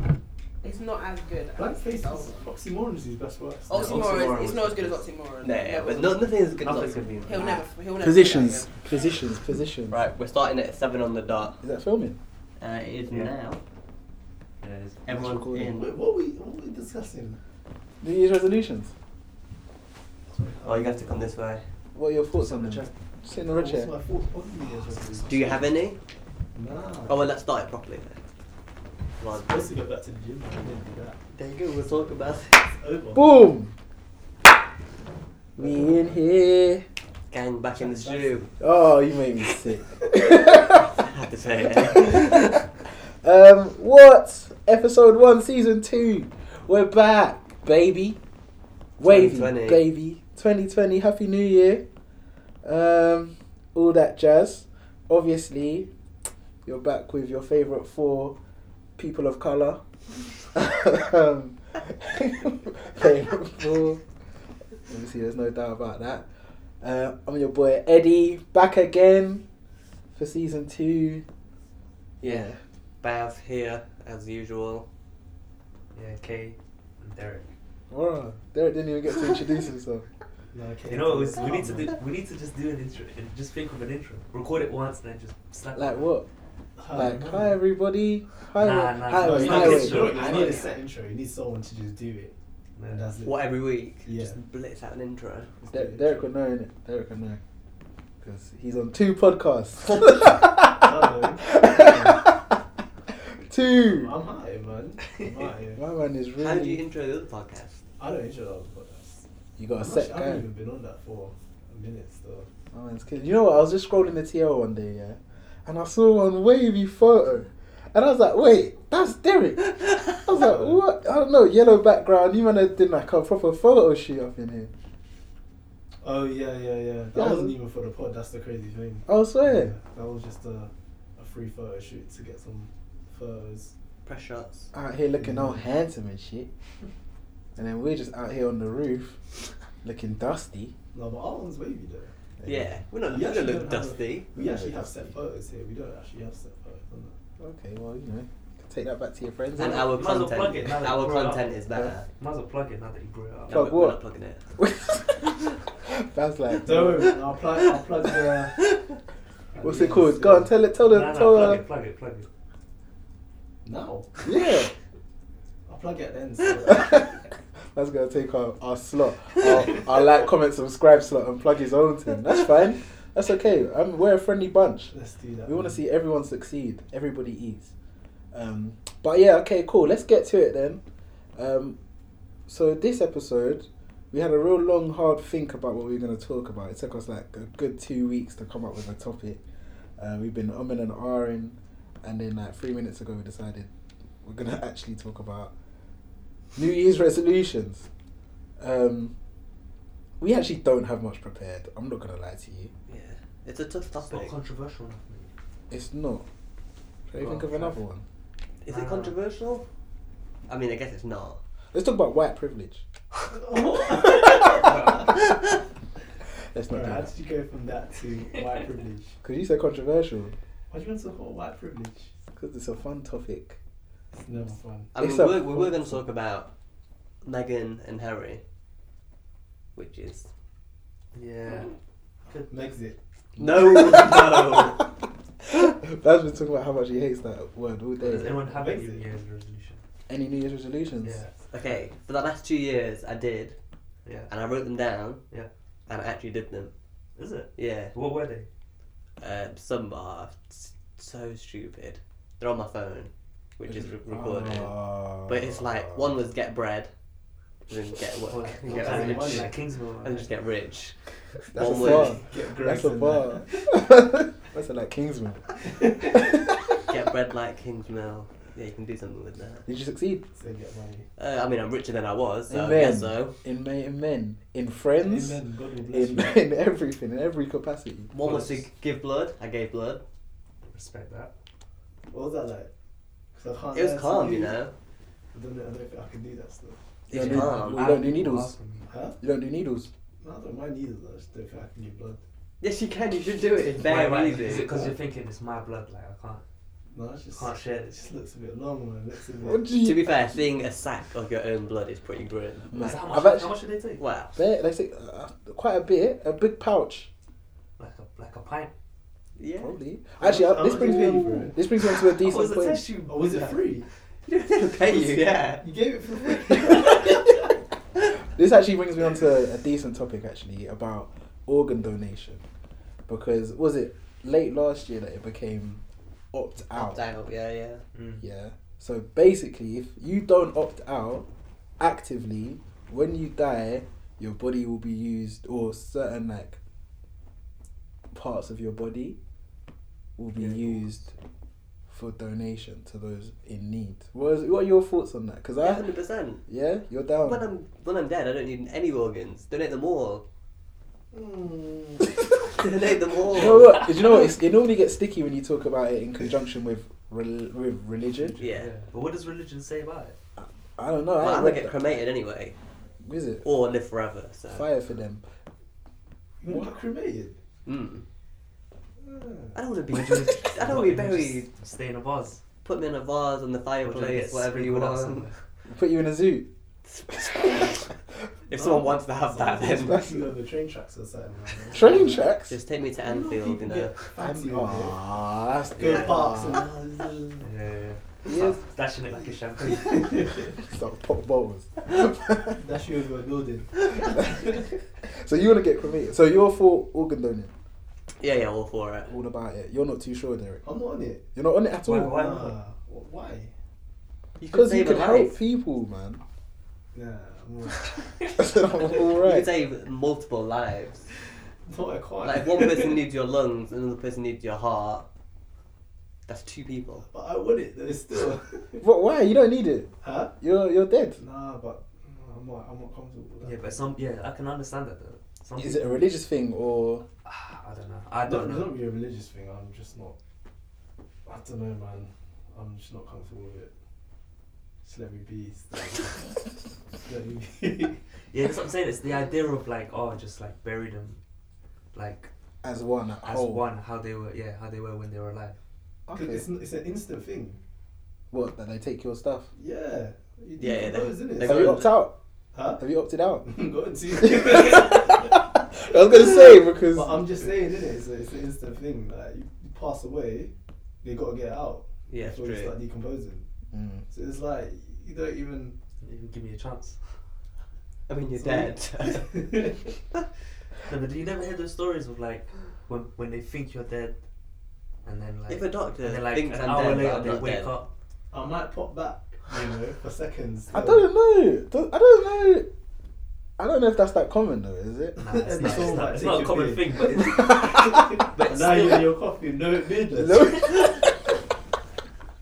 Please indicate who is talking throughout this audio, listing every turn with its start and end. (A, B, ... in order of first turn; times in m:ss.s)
0:00.6-0:02.4 A
0:01.6-0:04.0 B
0:03.7-0:06.3 A
0:03.8-0:07.6 C
0:03.8-0:04.2 D
0:06.6-0:07.6 D
0:07.2-0:09.2 A
0:08.0-0:10.0 E
0:09.9-0:11.6 C
0:11.6-0:12.2 E
0:12.6-0:13.6 C
0:14.6-0:15.0 D
0:15.0-0:15.9 C
0:15.1-0:15.7 E
0:15.7-0:17.4 B
0:18.0-0:18.9 E
0:20.3-0:21.3 B
0:20.6-0:21.6 C
0:21.9-0:23.9 E
0:22.4-0:22.9 D
0:23.4-0:25.7 B
0:25.2-0:26.0 C
0:26.5-0:27.3 B
0:27.1-0:28.2 C
0:29.2-0:29.6 C
0:29.3-0:31.2 B
0:31.3-0:32.7 C
0:32.7-0:33.4 B
0:33.1-0:33.7 E
0:35.6-0:36.0 B
0:35.6-0:36.8 E
0:37.3-0:38.5 C
0:37.7-0:38.6 B
0:38.6-0:41.0 E
0:40.8-0:42.6 C
0:41.9-0:42.4 E
0:43.2-0:48.2 E
0:49.0-0:51.8 E
0:49.0-0:49.8 C
0:52.6-0:55.9 E
0:56.6-0:58.4 E
0:59.0-0:59.8 E
1:00.4-1:04.0 E
1:04.9-1:06.2 E
1:06.8-1:09.4 E
1:10.2-1:11.2 E
1:12.2-1:12.6 E
1:12.2-1:14.9 C
1:15.9-1:17.5 D
1:17.9-1:20.0 E
1:20.5-1:22.0 B
1:20.9-1:26.1 D
1:25.7-1:26.3 E
1:26.8-1:27.4 B
1:26.9-1:30.6 E
1:26.9-1:27.5 D
1:28.5-1:30.6 D
1:29.1-1:32.3 B
1:30.2-1:30.6 C
1:32.8-1:33.1 D
1:32.9-1:33.4 B
1:33.2-1:35.5 C
1:34.0-1:34.4 B
1:35.6-1:36.3 B
1:35.7-1:37.4 E
1:38.2-1:42.4 E
1:40.6-1:42.3 B
1:43.4-1:44.1 E
1:43.8-1:45.8 B
1:45.7-1:46.8 E
1:46.4-1:47.8 C
1:48.0-1:49.2 B
1:49.6-1:50.4 E
1:49.8-1:52.5 B
1:52.7-2:04.7 E
2:00.3-2:00.8 B
2:06.0-2:13.7 B
2:07.1-2:07.6 E
2:09.0-2:09.7 E
2:14.0-2:14.7 C
2:14.7-2:16.5 E
2:15.2-2:15.7 B
2:17.6-2:19.2 E
2:19.8-2:20.7 E
2:20.9-2:22.1 B
2:22.4-2:22.8 E
2:22.4-2:24.3 C
2:23.0-2:27.1 B
2:24.4-2:25.1 E
2:27.4-2:29.9 E
2:29.6-2:32.1 C
2:29.9-2:33.6 D
2:33.5-2:34.4 C
2:33.5-2:34.0 E
2:34.6-2:37.1 E
2:36.6-2:38.6 B
2:39.5-2:40.5 B
2:39.6-2:41.6 E
2:40.8-2:42.3 D
2:43.6-2:44.2 B
2:44.2-2:44.7 E
2:45.7-2:47.2 B
2:46.6-2:47.1 E
2:47.7-2:54.9 E
2:54.9-2:55.8 B
2:55.4-2:57.7 E
2:58.3-3:00.8 E
3:01.4-3:01.8 E
3:02.5-3:09.4 E
3:10.0-3:13.7 E
3:14.2-3:15.5 E
3:16.6-3:17.9 E
3:18.6-3:19.1 E
3:20.2-3:22.7 E
3:22.9-3:24.3 C
3:24.0-3:25.3 D
3:25.7-3:26.2 E
3:27.1-3:28.0 E
3:27.2-3:27.8 D
3:28.6-3:29.6 C
3:28.7-3:29.1 D
3:30.5-3:31.4 C
3:31.7-3:32.8 E
3:33.3-3:35.2 B
3:34.6-3:35.2 D
3:36.5-3:37.1 E
3:36.7-3:39.2 B
3:39.2-3:40.3 E
3:40.7-3:42.1 B
3:42.4-3:43.6 E
3:44.1-3:44.9 B
3:44.9-3:46.5 C
3:45.0-3:46.0 E
3:47.2-3:48.4 C
3:49.8-3:50.3 C
3:51.1-3:51.7 D
3:52.5-3:53.0 B
3:53.4-3:54.8 C
3:53.4-3:54.8 E
3:55.4-3:58.4 E
3:58.0-3:59.8 D
3:58.3-3:59.0 B
4:00.1-4:01.2 E
4:01.0-4:01.8 D
4:01.5-4:03.6 C
4:04.0-4:04.3 D
4:04.3-4:05.2 C
4:05.9-4:06.7 C
4:07.2-4:08.5 D
4:07.6-4:07.9 C
4:09.2-4:16.9 C
4:13.7-4:16.2 E
4:17.7-4:22.2 C
4:18.3-4:20.3 D
4:18.7-4:19.5 B
4:21.5-4:25.5 E
4:21.6-4:23.7 B
4:25.6-4:26.2 B
4:26.0-4:26.8 E
4:26.8-4:29.7 C
4:29.6-4:30.3 E
4:30.4-4:31.1 B
4:31.2-4:33.4 C
4:32.5-4:38.6 E
4:35.0-4:36.4 B
4:38.1-4:40.0 C
4:40.6-4:41.3 D
4:42.1-4:42.7 B
4:43.3-4:44.6 B
4:43.7-4:44.7 C
4:45.3-4:46.8 B
4:47.1-4:48.5 E
4:47.1-4:47.9 C
4:47.1-4:48.9 D
4:48.9-4:49.2 B
4:49.2-4:49.9 E
4:50.2-4:52.2 B
4:52.6-4:54.8 C
4:53.8-4:56.4 D
4:56.9-4:59.6 B
4:57.3-4:58.0 D
4:59.4-5:00.4 E
4:59.8-5:03.0 C
5:02.7-5:03.5 E
5:02.7-5:04.0 D
5:04.0-5:04.4 C
5:04.3-5:07.1 E
5:07.8-5:08.7 D
5:09.4-5:09.7 C
5:09.6-5:12.8 E
5:10.2-5:11.6 B
5:12.0-5:13.5 D
5:13.0-5:13.9 B
5:14.2-5:15.7 C
5:15.0-5:17.4 B
5:16.2-5:17.2 C
5:18.0-5:22.4 E
5:23.1-5:27.0 E
5:26.7-5:27.8 C
5:27.9-5:28.2 D
5:28.2-5:31.2 E
5:31.8-5:36.6 E
5:38.1-5:39.2 E
5:40.2-5:41.0 E
5:40.4-5:41.1 D
5:41.9-5:45.9 E
5:45.6-5:46.4 C
5:46.5-5:47.4 E
5:47.2-5:50.2 C
5:51.1-5:52.2 B
5:52.4-5:53.9 C
5:53.3-5:58.4 E
5:58.4-5:58.7 C
5:58.4-6:00.2 D
6:00.4-6:01.8 E
6:01.2-6:02.6 C
6:03.0-6:03.4 E
6:03.4-6:04.7 C
6:04.5-6:05.2 E
6:06.4-6:07.4 B
6:06.4-6:06.7 E
6:07.6-6:08.0 C
6:09.0-6:09.6 B
6:09.5-6:11.5 C
6:09.9-6:12.4 D
6:12.6-6:15.3 C
6:13.8-6:15.3 D
6:15.7-6:16.5 E
6:17.1-6:17.7 E
6:17.1-6:17.8 C
6:18.5-6:20.0 C
6:18.5-6:22.1 B
6:19.6-6:20.3 E
6:21.7-6:22.6 E
6:21.8-6:22.2 D
6:21.8-6:24.0 C
6:23.0-6:25.0 B
6:24.2-6:26.6 E
6:25.8-6:26.4 D
6:25.8-6:27.5 B
6:27.4-6:30.3 D
6:28.3-6:28.6 E
6:29.6-6:30.5 B
6:30.6-6:32.6 E
6:32.5-6:34.7 B
6:35.0-6:37.5 E
6:38.2-6:39.1 C
6:39.1-6:40.6 E
6:40.6-6:41.2 B
6:41.3-6:42.2 E
6:41.8-6:42.6 D
6:42.1-6:43.5 B
6:44.4-6:45.4 C
6:44.5-6:46.2 E
6:46.9-6:48.2 B
6:48.4-6:49.5 E
6:48.8-6:51.1 C
6:51.6-6:53.0 B
6:52.2-6:55.1 C
6:56.3-6:57.0 C
6:57.1-6:58.8 B
6:58.8-7:01.2 E
7:00.0-7:00.3 B
7:01.2-7:03.5 B
7:03.4-7:06.1 D
7:05.6-7:07.0 E
7:07.2-7:08.7 D
7:08.2-7:10.2 B
7:11.2-7:13.7 B
7:14.8-7:18.0 B
7:18.3-7:21.2 D
7:21.9-7:22.3 D
7:22.6-7:23.6 E
7:23.2-7:25.6 D
7:26.1-7:26.4 E
7:26.1-7:27.6 B
7:28.3-7:29.5 E
7:29.5-7:31.9 B
7:30.6-7:31.8 C
7:31.4-7:32.2 E
7:32.5-7:32.8 B
7:32.8-7:33.5 E
7:33.4-7:35.4 B
7:34.2-7:37.4 E
7:36.9-7:43.4 B
7:42.1-7:42.7 C
7:43.7-7:44.0 E
7:44.1-7:45.8 B
7:46.0-7:47.2 D
7:48.1-7:49.7 C
7:48.4-7:49.8 B
7:50.8-7:54.2 D
7:55.0-7:57.9 D
7:55.5-7:57.7 C
7:58.3-8:01.1 B
8:00.7-8:02.7 E
8:03.6-8:06.0 E
8:05.2-8:09.1 D
8:05.2-8:10.8 B
8:07.4-8:08.0 E
8:10.1-8:11.2 E